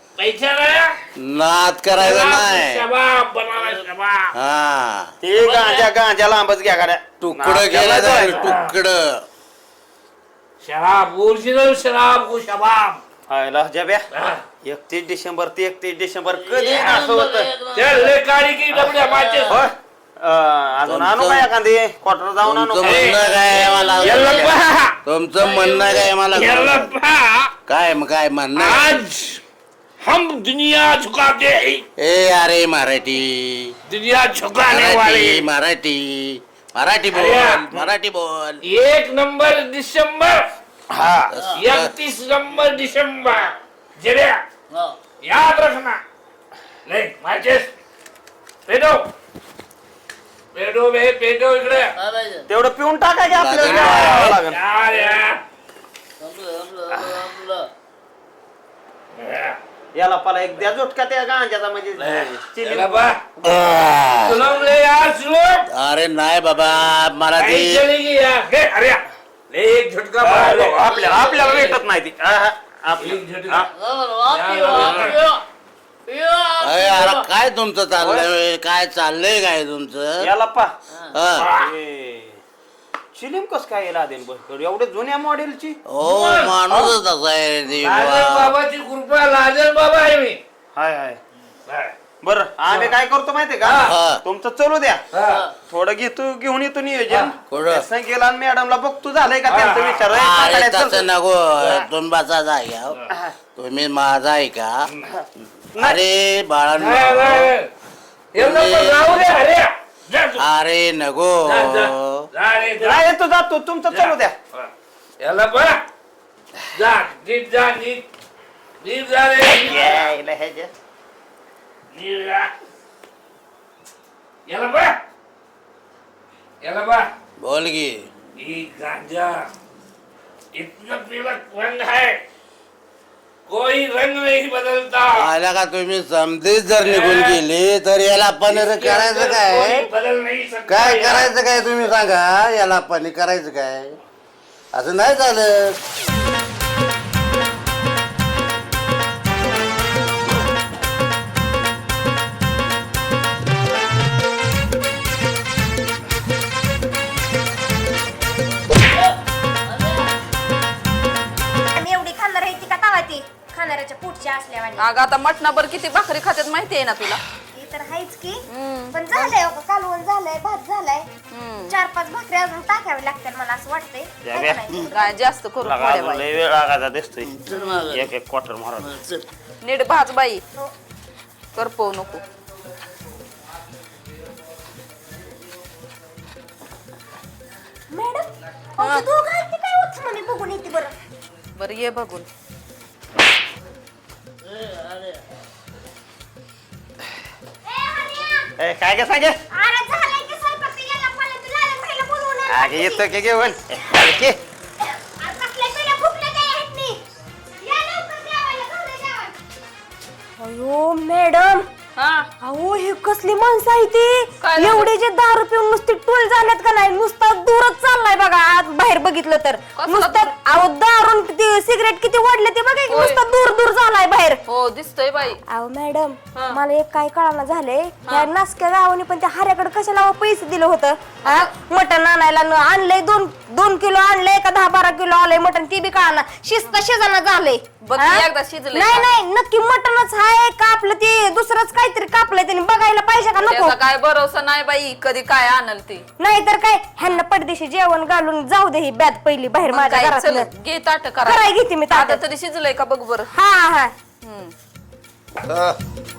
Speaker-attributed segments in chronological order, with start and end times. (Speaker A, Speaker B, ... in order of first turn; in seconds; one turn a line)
Speaker A: 0.2-0.9
Speaker B: 1.2-2.9
Speaker A: 1.9-4.3
Speaker B: 4.3-5.1
Speaker C: 5.2-8.4
Speaker A: 5.4-5.9
Speaker B: 7.2-9.2
Speaker A: 8.3-8.7
Speaker A: 10.6-13.0
Speaker C: 13.3-14.0
Speaker A: 14.1-14.4
Speaker C: 14.6-17.5
Speaker D: 16.3-18.2
Speaker A: 16.7-17.0
Speaker A: 17.8-19.6
Speaker D: 18.8-19.6
Speaker C: 19.5-23.1
Speaker B: 20.9-21.5
Speaker B: 22.4-24.5
Speaker A: 22.8-27.5
Speaker D: 23.4-24.4
Speaker B: 25.0-26.9
Speaker B: 27.7-29.0
Speaker A: 28.6-29.4
Speaker A: 30.0-31.8
Speaker B: 32.0-33.8
Speaker A: 33.9-35.5
Speaker B: 34.7-38.6
Speaker A: 37.1-37.6
Speaker A: 38.6-40.5
Speaker C: 40.9-41.3
Speaker B: 41.3-41.9
Speaker A: 41.5-44.4
Speaker D: 44.7-45.0
Speaker A: 45.2-46.0
Speaker A: 46.9-47.7
Speaker A: 48.7-49.1
Speaker A: 50.5-51.9
Speaker D: 52.0-52.5
Speaker C: 52.5-54.6
Speaker B: 53.3-54.4
Speaker A: 53.6-55.4
Speaker D: 56.2-57.7
Speaker A: 59.2-59.6
Speaker C: 59.9-63.1
Speaker A: 62.0-63.2
Speaker B: 63.4-64.4
Speaker A: 64.2-65.7
Speaker B: 65.7-67.8
Speaker A: 67.4-71.8
Speaker C: 70.2-73.7
Speaker D: 71.1-71.5
Speaker A: 73.0-73.7
Speaker D: 73.8-75.4
Speaker A: 74.3-75.2
Speaker D: 76.1-77.3
Speaker B: 76.6-80.3
Speaker C: 78.0-78.3
Speaker C: 80.2-80.7
Speaker B: 81.1-81.5
Speaker A: 81.4-81.7
Speaker C: 81.5-82.4
Speaker C: 83.1-85.8
Speaker B: 85.9-88.5
Speaker A: 86.0-86.6
Speaker C: 86.7-86.9
Speaker A: 87.8-90.4
Speaker C: 90.8-91.2
Speaker A: 91.7-91.9
Speaker C: 92.2-95.0
Speaker A: 92.7-92.9
Speaker A: 93.6-93.9
Speaker B: 93.8-94.2
Speaker A: 95.1-95.4
Speaker D: 95.2-95.5
Speaker C: 95.7-101.1
Speaker B: 97.5-97.9
Speaker A: 99.5-100.0
Speaker B: 100.1-103.0
Speaker C: 103.1-103.3
Speaker B: 103.5-104.9
Speaker B: 105.8-107.5
Speaker A: 106.8-107.7
Speaker A: 108.3-110.5
Speaker B: 108.3-109.2
Speaker B: 110.4-112.3
Speaker A: 111.5-113.1
Speaker C: 112.8-114.3
Speaker A: 113.9-114.7
Speaker A: 115.2-115.8
Speaker A: 116.7-118.0
Speaker A: 118.8-120.1
Speaker C: 119.4-120.7
Speaker A: 121.9-122.5
Speaker A: 124.5-125.0
Speaker A: 126.6-127.1
Speaker B: 127.4-128.1
Speaker A: 128.4-129.4
Speaker A: 130.5-132.2
Speaker A: 133.5-135.3
Speaker B: 135.1-139.9
Speaker A: 136.8-137.4
Speaker A: 138.5-141.3
Speaker B: 140.7-144.0
Speaker B: 144.7-145.8
Speaker E: 161.8-164.9
Speaker F: 164.8-167.2
Speaker E: 167.5-171.1
Speaker F: 168.5-169.3
Speaker F: 171.3-171.8
Speaker E: 171.7-175.2
Speaker C: 174.2-174.8
Speaker F: 174.9-176.3
Speaker C: 175.6-177.3
Speaker D: 177.2-178.1
Speaker C: 177.9-179.0
Speaker D: 178.8-179.2
Speaker F: 179.6-180.4
Speaker F: 181.6-182.2
Speaker E: 187.9-190.9
Speaker F: 188.8-189.1
Speaker F: 191.6-192.3
Speaker D: 194.5-195.2
Speaker E: 197.7-198.5
Speaker C: 198.6-199.4
Speaker E: 199.5-203.1
Speaker C: 202.5-204.4
Speaker E: 205.2-207.0
Speaker E: 207.6-209.3
Speaker E: 210.4-211.7
Speaker F: 212.0-212.3
Speaker E: 212.4-224.4
Speaker F: 214.4-214.9
Speaker F: 219.8-220.3
Speaker F: 222.9-223.2
Speaker F: 224.5-225.4
Speaker E: 225.5-243.8
Speaker F: 231.2-231.5
Speaker F: 237.8-239.1
Speaker F: 243.4-246.0
Speaker E: 246.2-250.5
Speaker F: 249.6-253.3
Speaker E: 251.2-252.2
Speaker E: 253.3-253.9
Speaker F: 254.2-254.5
Speaker B: 255.4-255.8